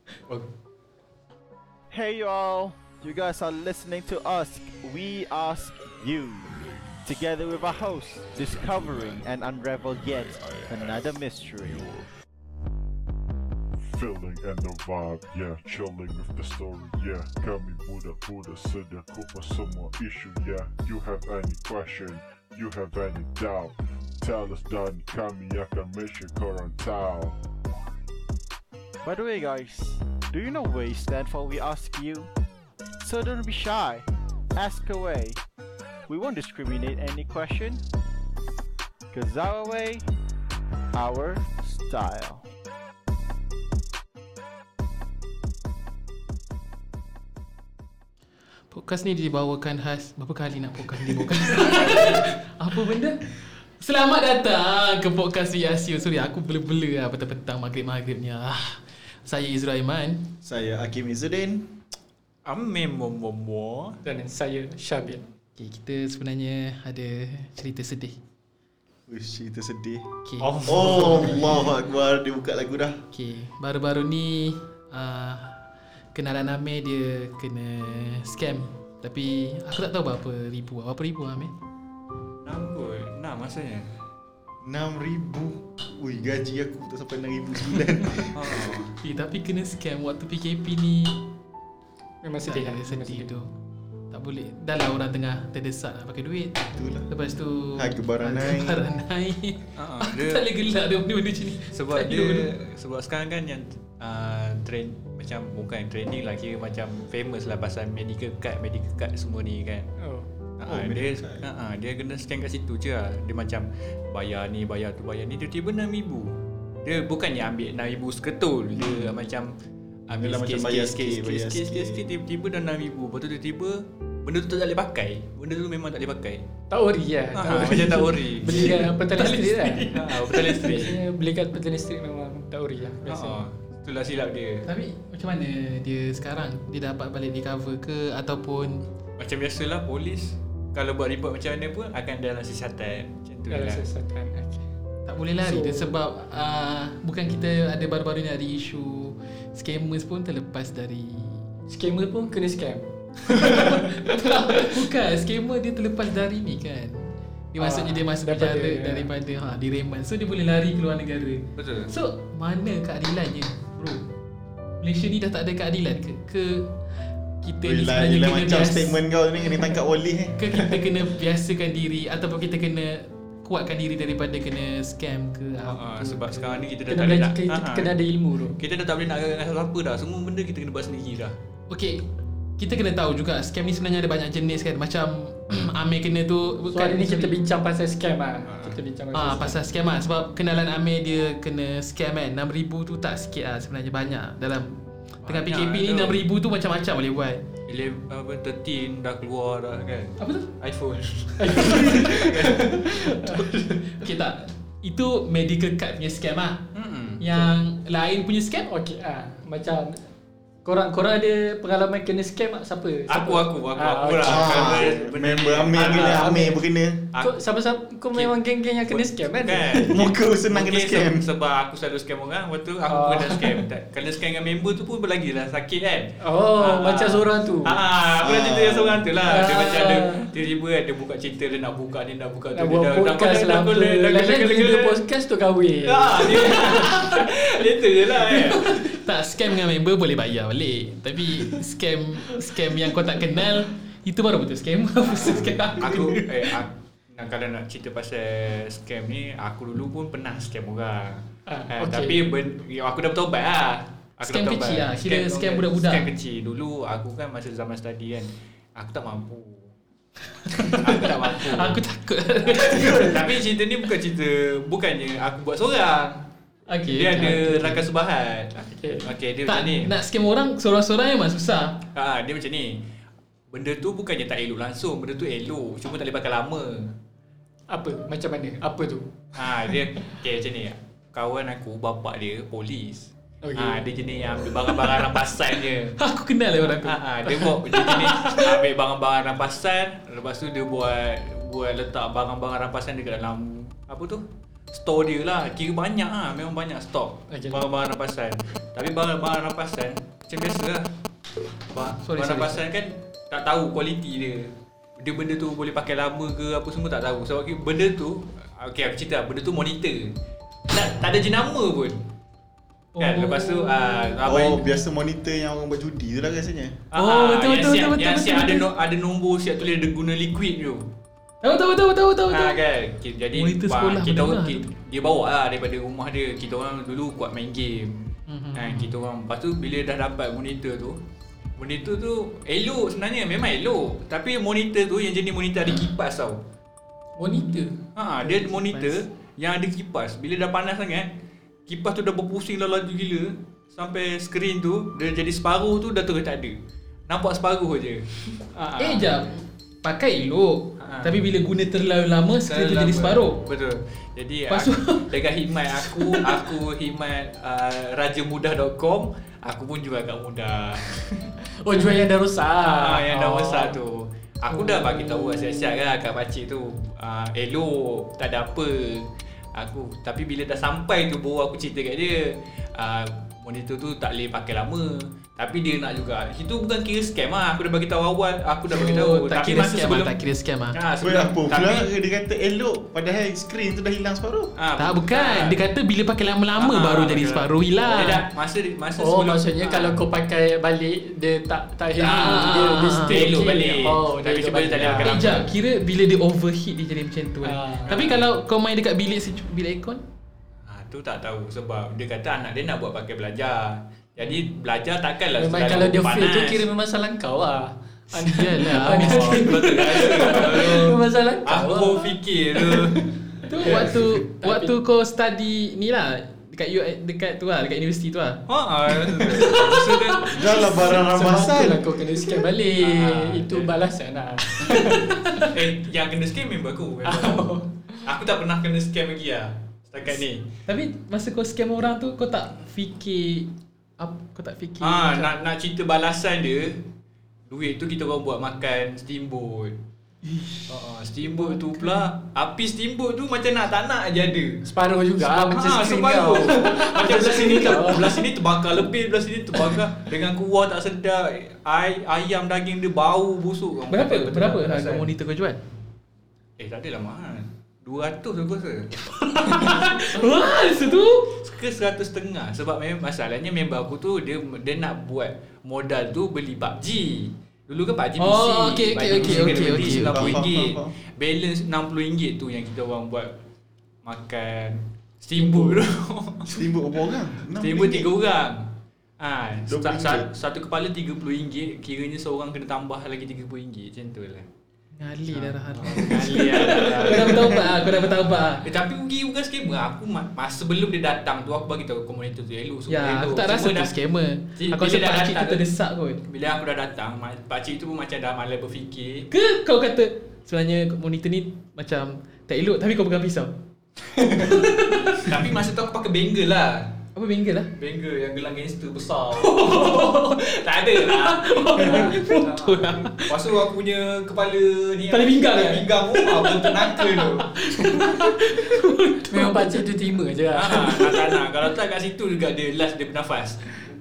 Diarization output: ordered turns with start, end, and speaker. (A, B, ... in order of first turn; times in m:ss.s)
0:01.9-0:11.9 A
0:13.9-0:27.4 B
0:29.0-0:32.3 A
0:33.0-0:35.4 A
0:36.1-0:37.8 A
0:39.1-0:40.0 A
0:40.9-0:42.4 A
0:48.7-0:53.2 C
0:53.8-1:00.3 C
1:00.4-1:01.7 D
1:02.4-1:04.0 E
1:04.0-1:05.3 F
1:05.6-1:08.2 C
1:09.1-1:10.1 D
1:10.2-1:11.3 C
1:10.4-1:11.6 E
1:10.6-1:13.0 D
1:13.1-1:15.6 C
1:16.1-1:21.5 C
1:22.4-1:23.9 E
1:24.6-1:28.8 D
1:28.3-1:28.9 E
1:29.0-1:31.2 C
1:32.2-1:33.2 F
1:32.4-1:33.5 C
1:34.1-1:42.5 C
1:36.8-1:37.1 D
1:37.8-1:38.8 D
1:39.8-1:40.4 E
1:41.7-1:49.9 E
1:50.0-1:50.3 F
1:50.6-1:59.5 E
1:50.6-1:51.5 D
1:58.7-1:59.1 D
2:00.1-2:06.4 E
2:00.2-2:02.0 D
2:06.7-2:09.9 F
2:07.3-2:08.9 E
2:08.5-2:10.8 C
2:09.9-2:11.0 E
2:10.6-2:13.4 F
2:13.0-2:14.7 E
2:14.6-2:18.8 C
2:19.2-2:23.8 E
2:23.5-2:24.6 F
2:25.1-2:31.4 C
2:25.4-2:25.9 F
2:31.7-2:34.8 F
2:33.3-2:44.0 C
2:37.6-2:39.1 F
2:41.6-2:41.9 E
2:44.8-2:46.7 C
2:47.4-2:49.0 C
2:47.6-2:50.4 D
2:50.4-2:56.6 C
2:55.6-2:57.9 E
2:56.9-2:58.6 F
2:58.6-3:01.3 E
3:01.7-3:02.0 C
3:02.6-3:07.3 C
3:06.7-3:09.6 F
3:08.5-3:08.8 E
3:09.1-3:17.4 C
3:15.2-3:16.2 E
3:17.7-3:23.5 E
3:20.2-3:20.5 C
3:21.4-3:23.4 F
3:21.7-3:22.0 C
3:23.4-3:26.6 C
3:26.7-3:27.2 E
3:27.2-3:28.7 C
3:28.7-3:30.0 F
3:30.6-3:34.8 F
3:33.1-3:36.5 E
3:34.2-3:37.0 D
3:35.9-3:36.6 F
3:37.2-3:40.0 F
3:38.1-3:55.0 E
3:39.9-3:41.3 D
3:42.9-3:43.6 F
3:46.2-3:47.8 F
3:48.2-3:49.0 D
3:49.2-3:50.3 F
3:52.5-3:56.8 F
3:55.8-3:58.8 E
3:56.5-3:57.2 C
3:58.3-3:58.8 F
3:58.6-4:06.5 C
4:05.0-4:19.7 E
4:11.5-4:12.2 F
4:14.2-4:16.1 C
4:20.4-4:23.2 C
4:20.6-4:21.8 E
4:22.5-4:26.2 E
4:26.7-4:27.8 C
4:26.9-4:29.9 E
4:28.6-4:29.0 F
4:29.5-4:31.8 C
4:31.9-4:32.8 E
4:33.5-4:36.9 E
4:37.7-4:39.2 F
4:39.3-4:46.0 E
4:43.4-4:43.8 F
4:46.0-4:48.6 C
4:46.6-5:00.9 E
4:57.3-4:57.6 F
5:01.7-5:10.1 E
5:02.0-5:02.6 C
5:10.7-5:12.0 E
5:12.9-5:14.1 C
5:13.0-5:14.6 E
5:14.2-5:16.8 D
5:16.9-5:20.9 E
5:17.0-5:18.6 C
5:21.4-5:22.6 C
5:22.3-5:28.0 E
5:23.3-5:24.6 C
5:28.3-5:28.9 C
5:28.5-5:31.0 E
5:31.6-5:36.4 E
5:37.2-5:37.8 F
5:38.0-5:41.1 E
5:38.2-5:39.0 C
5:41.7-5:46.5 E
5:47.1-5:49.1 E
5:48.8-5:53.4 C
5:50.8-5:51.2 E
5:52.5-6:01.3 E
5:54.5-5:55.1 C
5:55.7-5:56.4 C
6:01.6-6:03.8 F
6:02.7-6:20.1 E
6:04.5-6:05.2 F
6:18.7-6:20.8 C
6:20.7-6:21.9 E
6:21.0-6:24.5 D
6:24.6-6:25.6 E
6:24.8-6:28.2 C
6:26.6-6:30.0 E
6:29.0-6:35.1 F
6:32.0-6:33.2 C
6:33.0-6:35.5 E
6:34.8-6:40.0 C
6:37.4-6:37.9 F
6:37.9-6:38.2 E
6:40.6-6:46.6 E
6:45.4-6:53.0 F
6:48.2-6:49.8 C
6:48.7-6:53.1 E
6:53.4-7:00.3 C
6:53.6-6:54.7 F
6:58.5-7:00.4 E
7:00.3-7:01.9 D
7:00.6-7:05.2 F
7:02.8-7:03.7 E
7:04.6-7:05.5 C
7:05.4-7:07.5 E
7:07.0-7:08.0 F
7:08.0-7:10.5 E
7:10.6-7:15.3 C
7:14.8-7:16.8 E
7:17.5-7:19.8 E
7:20.2-7:22.1 C
7:20.7-7:24.6 E
7:24.6-7:28.2 F
7:25.2-7:35.1 E
7:33.9-7:35.6 C
7:36.6-7:38.9 E
7:38.9-7:41.4 C
7:39.5-7:40.0 E
7:41.3-7:53.3 E
7:48.2-7:50.4 C
7:49.2-7:50.9 D
7:54.0-7:56.5 E
7:55.4-7:55.8 F
7:56.5-7:58.1 D
7:57.6-8:04.4 E
7:59.7-8:00.3 D
8:05.0-8:08.6 C
8:05.3-8:07.7 E
8:07.2-8:07.6 D
8:08.6-8:13.9 E
8:12.9-8:16.2 C
8:14.6-8:15.6 E
8:16.2-8:19.3 E
8:19.3-8:23.5 C
8:24.1-8:27.0 E
8:24.4-8:25.4 C
8:27.1-8:27.7 C
8:27.8-8:37.7 E
8:29.4-8:30.4 C
8:31.0-8:33.3 C
8:35.1-8:39.6 C
8:37.8-8:38.1 F
8:39.3-8:41.3 F
8:40.5-8:43.8 E